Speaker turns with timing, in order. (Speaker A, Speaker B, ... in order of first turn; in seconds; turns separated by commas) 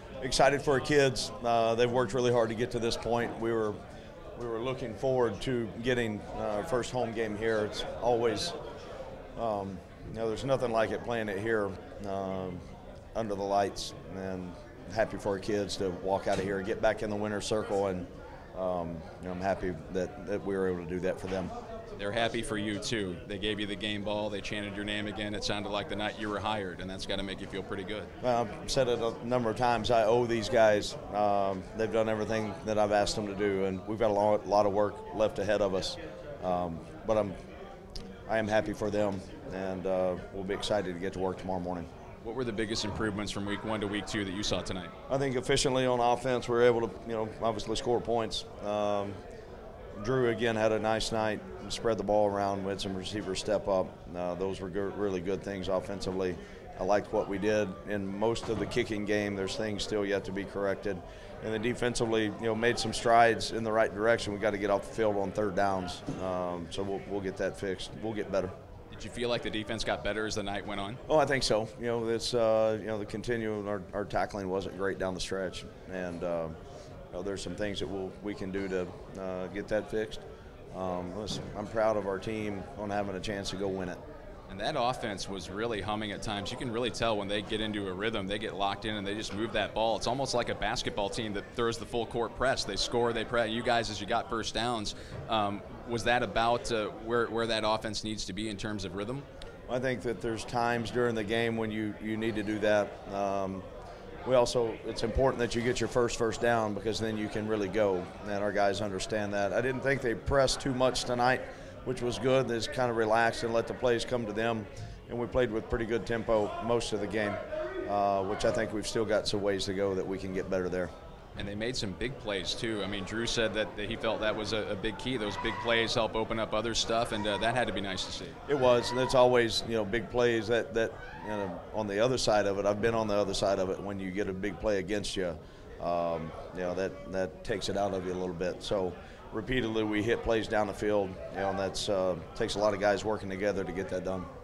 Speaker A: 0.2-3.8, Speaker A: 4.4-8.6, Speaker A: 9.4-12.6, Speaker A: 13.2-21.5, Speaker B: 22.0-28.1, Speaker A: 28.2-37.4, Speaker A: 38.3-41.9, Speaker B: 42.2-44.9, Speaker A: 45.1-49.2, Speaker A: 50.0-68.5, Speaker B: 68.9-71.0, Speaker A: 71.1-76.6, Speaker A: 77.1-84.0, Speaker B: 84.5-99.3, Speaker A: 99.7-103.6, Speaker A: 104.2-120.9, Speaker B: 121.4-128.4, Speaker A: 128.5-144.3